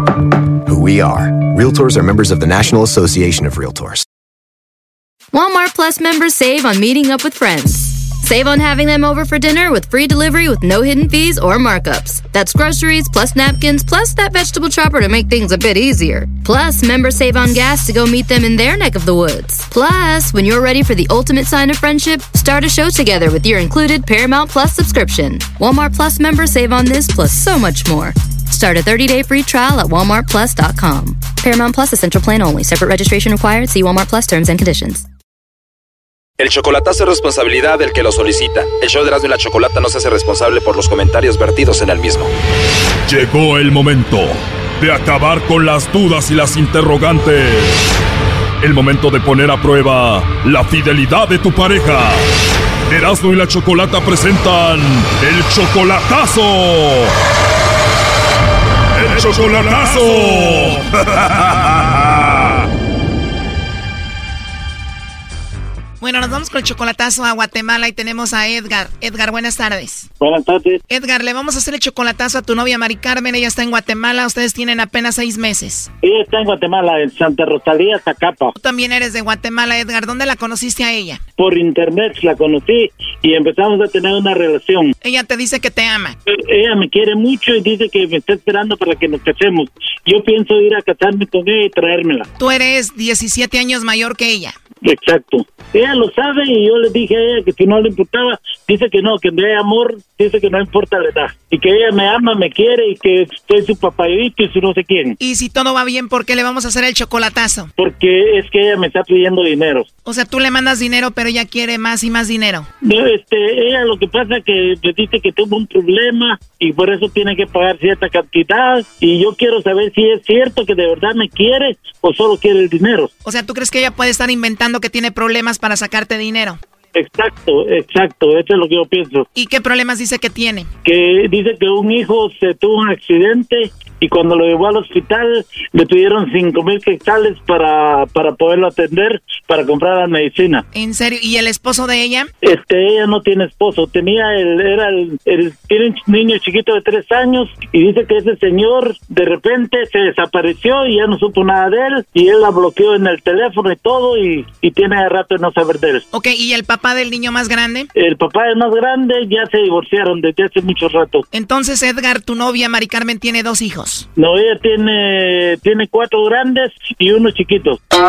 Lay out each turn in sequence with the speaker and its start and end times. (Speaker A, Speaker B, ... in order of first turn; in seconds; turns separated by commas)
Speaker A: 0.6-4.0, Speaker B: 5.3-35.1, Speaker C: 36.4-42.3, Speaker D: 43.1-48.0, Speaker D: 48.6-52.2, Speaker D: 52.9-57.1, Speaker D: 59.0-62.5, Speaker E: 66.0-70.1, Speaker F: 70.2-70.8, Speaker E: 70.9-75.9, Speaker F: 76.0-78.5, Speaker E: 78.6-81.2, Speaker F: 81.4-84.9, Speaker E: 85.0-86.2, Speaker F: 86.3-92.3, Speaker E: 92.4-94.5, Speaker F: 94.8-105.2, Speaker E: 105.2-107.7, Speaker F: 107.8-109.9, Speaker E: 110.0-112.7, Speaker F: 112.8-123.1, Speaker E: 123.2-126.6, Speaker F: 127.0-129.3, Speaker E: 129.3-130.7, Speaker F: 130.8-140.6, Speaker E: 140.7-142.3, Speaker F: 142.4-156.0, Speaker E: 156.1-157.9, Speaker F: 158.0-161.2, Speaker E: 161.3-164.1, Speaker F: 164.2-167.8